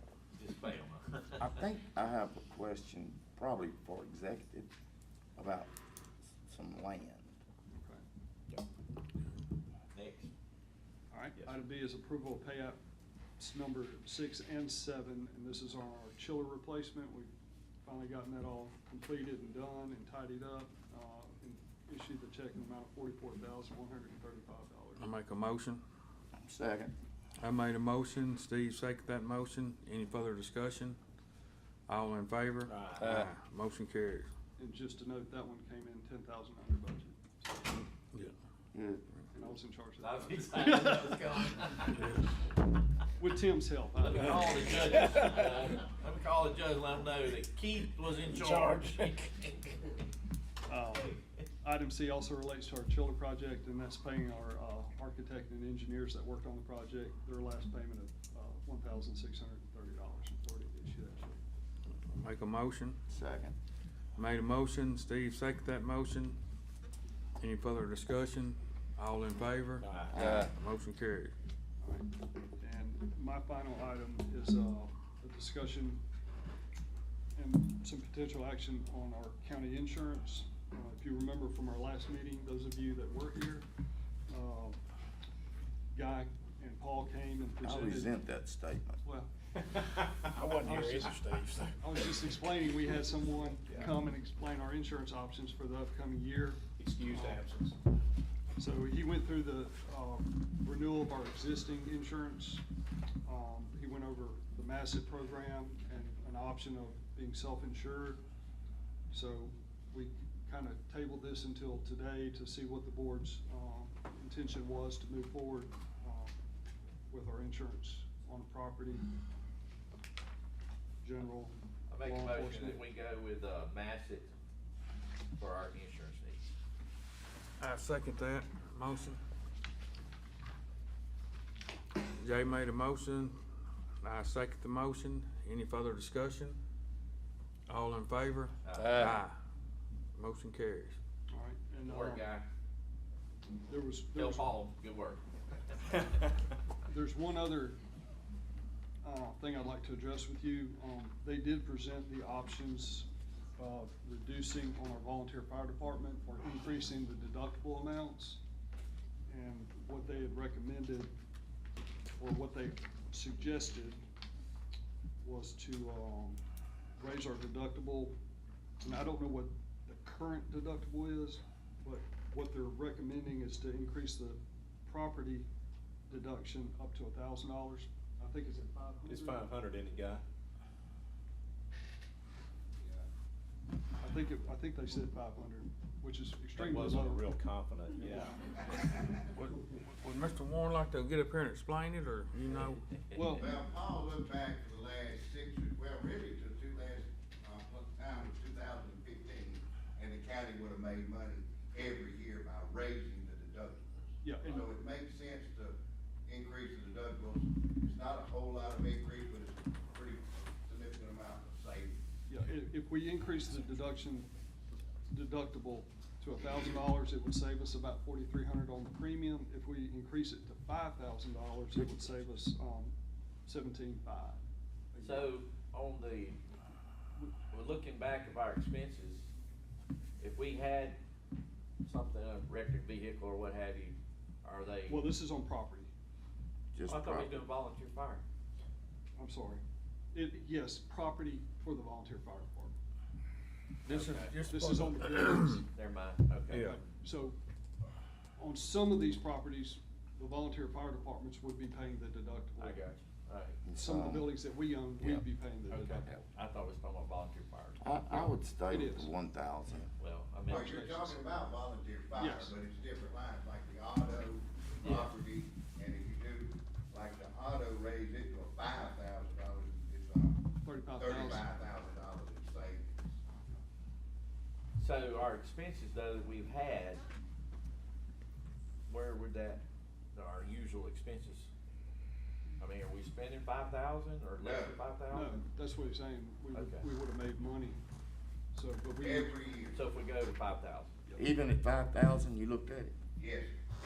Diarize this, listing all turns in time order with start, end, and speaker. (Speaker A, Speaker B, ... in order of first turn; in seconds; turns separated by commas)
Speaker A: 0.4-1.5, Speaker B: 1.4-4.7, Speaker B: 5.4-5.7, Speaker B: 6.4-7.3, Speaker C: 7.7-8.0, Speaker A: 9.9-10.3, Speaker C: 11.1-12.8, Speaker C: 13.4-17.3, Speaker C: 17.8-25.1, Speaker D: 25.0-25.8, Speaker B: 26.4-26.9, Speaker D: 27.4-31.0, Speaker D: 31.9-34.3, Speaker B: 33.0-33.3, Speaker C: 34.6-37.8, Speaker B: 38.7-39.0, Speaker C: 39.3-41.0, Speaker A: 40.0-42.0, Speaker C: 43.2-44.8, Speaker A: 44.0-49.7, Speaker E: 48.4-49.1, Speaker C: 50.6-61.4, Speaker D: 62.1-63.0, Speaker B: 63.1-63.6, Speaker D: 64.2-66.4, Speaker D: 67.4-71.3, Speaker E: 69.8-70.2, Speaker B: 70.1-70.5, Speaker C: 71.8-76.0, Speaker C: 77.3-83.7, Speaker C: 84.3-84.8, Speaker C: 85.9-88.2, Speaker B: 87.6-89.0, Speaker C: 89.0-89.3, Speaker E: 89.6-92.3, Speaker C: 90.6-91.2, Speaker C: 91.8-97.5, Speaker E: 93.7-94.0, Speaker E: 96.8-97.8, Speaker C: 98.6-102.6, Speaker C: 103.2-108.2, Speaker C: 109.1-116.3, Speaker C: 117.1-119.1, Speaker C: 121.0-122.8, Speaker A: 121.9-124.3, Speaker A: 125.4-126.4, Speaker D: 127.6-129.2, Speaker D: 132.2-133.4, Speaker D: 134.0-136.6, Speaker D: 137.7-139.4, Speaker A: 138.6-139.1, Speaker D: 140.2-141.0, Speaker C: 141.3-142.3, Speaker A: 141.9-142.5, Speaker C: 143.7-144.6, Speaker A: 144.1-145.2, Speaker C: 146.9-147.8, Speaker C: 149.0-158.4, Speaker C: 159.3-161.1, Speaker C: 162.2-164.0, Speaker C: 165.2-166.4, Speaker C: 167.0-168.2, Speaker C: 168.8-175.5, Speaker C: 176.1-179.5, Speaker E: 179.1-180.2, Speaker F: 182.8-183.1, Speaker C: 184.0-187.3, Speaker E: 186.6-188.6, Speaker D: 189.2-192.8, Speaker C: 193.1-193.6, Speaker F: 193.3-212.0, Speaker C: 204.2-204.7, Speaker C: 212.3-214.3, Speaker C: 215.1-224.4, Speaker C: 224.9-225.3, Speaker A: 225.0-226.4, Speaker A: 227.5-229.3, Speaker A: 230.2-231.0, Speaker A: 231.8-235.1, Speaker C: 234.9-235.9, Speaker B: 236.7-237.5, Speaker A: 236.9-238.2, Speaker C: 239.2-239.6, Speaker C: 240.1-242.8, Speaker D: 243.9-245.5, Speaker A: 243.9-244.4, Speaker C: 244.5-245.7, Speaker A: 245.7-246.9, Speaker E: 246.5-246.8, Speaker C: 246.6-247.4, Speaker C: 248.4-252.8, Speaker A: 252.6-253.6, Speaker B: 253.6-255.2, Speaker C: 253.8-256.2, Speaker A: 255.7-257.8, Speaker B: 257.8-259.9, Speaker C: 258.1-259.1, Speaker A: 260.0-261.1, Speaker F: 260.5-273.6, Speaker C: 260.5-261.2, Speaker C: 262.2-262.6, Speaker A: 264.8-265.1, Speaker C: 270.6-271.5, Speaker A: 274.8-277.0, Speaker A: 278.9-281.5, Speaker A: 282.6-285.4, Speaker F: 284.4-284.8, Speaker C: 285.1-287.8, Speaker A: 286.5-286.9, Speaker C: 288.5-289.4, Speaker F: 289.0-289.8, Speaker A: 289.7-290.9, Speaker B: 291.2-292.9, Speaker F: 293.2-293.5